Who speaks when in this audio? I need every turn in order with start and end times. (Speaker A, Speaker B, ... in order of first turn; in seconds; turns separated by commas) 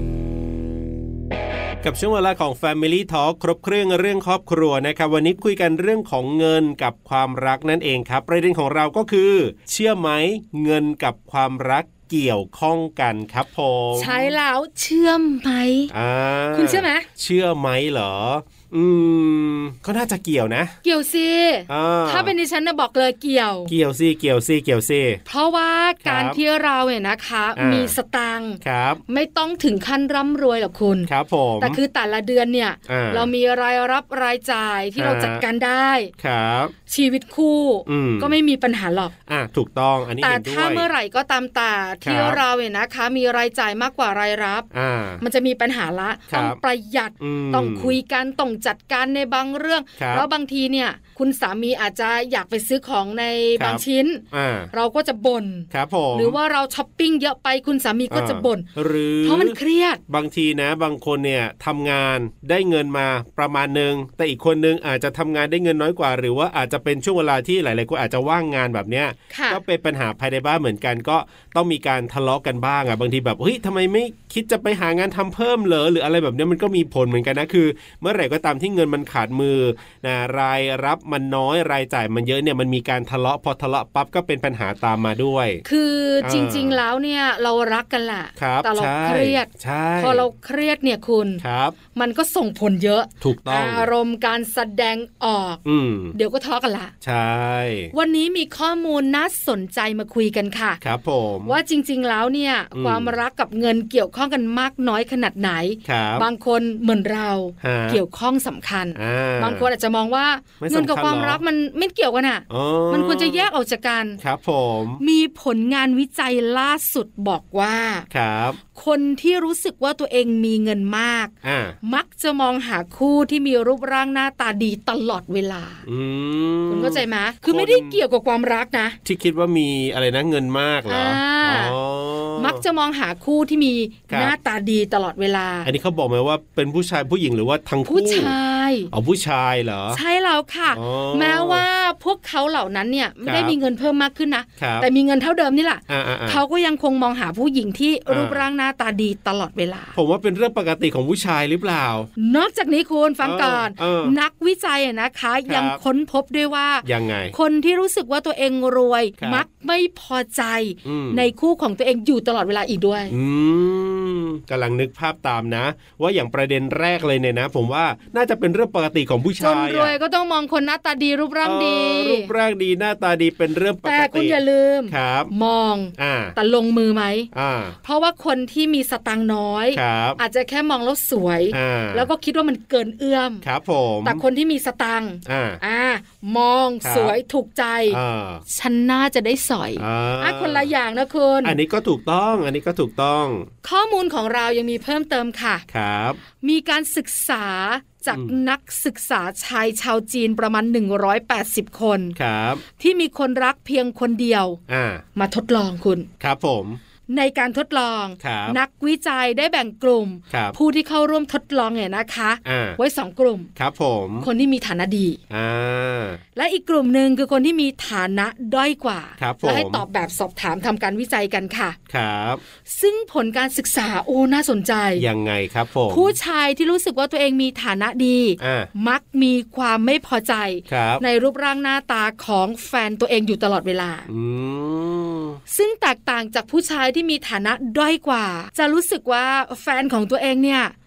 Speaker A: 1.8-14.3, Speaker B: 13.9-15.9, Speaker A: 15.9-20.8, Speaker B: 16.5-17.1, Speaker B: 20.8-23.7, Speaker A: 21.7-22.3, Speaker A: 23.7-25.2, Speaker B: 25.3-31.1, Speaker A: 26.0-26.4, Speaker A: 27.6-28.0, Speaker A: 28.6-29.0, Speaker A: 31.1-31.8, Speaker B: 31.6-36.1, Speaker A: 32.9-33.3, Speaker A: 35.0-35.4, Speaker A: 36.2-36.7, Speaker B: 36.9-39.1, Speaker A: 37.9-38.4, Speaker A: 39.3-40.9, Speaker B: 40.2-44.7, Speaker A: 42.0-42.4, Speaker A: 44.7-45.2, Speaker B: 45.2-58.7, Speaker A: 46.3-46.6, Speaker A: 47.2-48.0, Speaker A: 50.0-50.3, Speaker A: 53.6-54.7, Speaker A: 55.7-56.4, Speaker A: 58.1-85.6, Speaker B: 59.2-60.0, Speaker B: 69.3-69.6, Speaker B: 85.7-91.4, Speaker A: 86.2-86.8, Speaker A: 88.4-90.3, Speaker A: 91.4-91.8, Speaker B: 91.9-95.6, Speaker A: 93.2-93.9, Speaker A: 95.7-96.2, Speaker B: 96.1-96.9, Speaker A: 97.0-97.9, Speaker B: 97.9-100.8, Speaker A: 100.8-101.6, Speaker B: 101.5-114.2, Speaker A: 102.7-103.2, Speaker A: 105.8-106.3, Speaker A: 107.6-108.0, Speaker A: 109.0-109.7, Speaker A: 110.6-111.4, Speaker A: 112.5-113.5, Speaker A: 114.2-115.0, Speaker B: 115.0-118.1, Speaker A: 118.1-118.6, Speaker B: 118.7-125.8, Speaker A: 121.4-121.8, Speaker A: 125.8-128.0, Speaker B: 126.7-129.0, Speaker A: 129.1-132.6, Speaker B: 130.9-131.8, Speaker B: 132.4-135.7, Speaker A: 134.1-134.4, Speaker A: 135.6-138.4, Speaker B: 137.9-138.9, Speaker A: 138.9-140.0, Speaker B: 139.9-150.0, Speaker A: 140.7-141.7, Speaker A: 143.2-143.6, Speaker A: 144.6-144.9, Speaker A: 145.9-146.4, Speaker A: 148.1-148.4, Speaker A: 149.9-152.1, Speaker B: 152.2-163.1, Speaker A: 153.2-154.2, Speaker A: 155.5-155.8, Speaker A: 156.8-157.3, Speaker A: 159.2-159.4, Speaker A: 160.8-161.3, Speaker A: 163.1-170.0, Speaker B: 169.4-172.3, Speaker A: 171.4-175.3, Speaker B: 173.8-177.3, Speaker A: 176.0-176.4, Speaker A: 177.3-177.8, Speaker B: 177.8-183.4, Speaker A: 179.7-180.2, Speaker A: 181.5-182.1, Speaker A: 183.4-184.2, Speaker B: 184.0-191.6, Speaker A: 185.2-185.6, Speaker A: 186.8-187.2, Speaker A: 187.9-188.4, Speaker A: 189.8-190.7, Speaker A: 191.4-193.5, Speaker B: 193.6-195.7, Speaker A: 195.7-196.2, Speaker B: 196.4-202.2, Speaker A: 198.1-198.4, Speaker A: 202.2-202.6, Speaker B: 202.8-204.6, Speaker A: 204.7-205.0, Speaker B: 205.2-206.1, Speaker A: 206.2-206.8, Speaker B: 207.1-213.5, Speaker A: 208.2-208.6, Speaker A: 210.3-210.6, Speaker A: 212.4-212.8, Speaker A: 213.6-214.3, Speaker B: 214.2-215.2, Speaker A: 215.3-216.2, Speaker B: 216.3-221.8, Speaker A: 219.2-219.8, Speaker A: 221.9-222.4, Speaker B: 222.7-225.1, Speaker A: 225.0-226.2, Speaker B: 225.9-234.1, Speaker A: 228.4-228.7, Speaker A: 230.7-231.0, Speaker A: 234.1-235.4, Speaker B: 235.5-240.7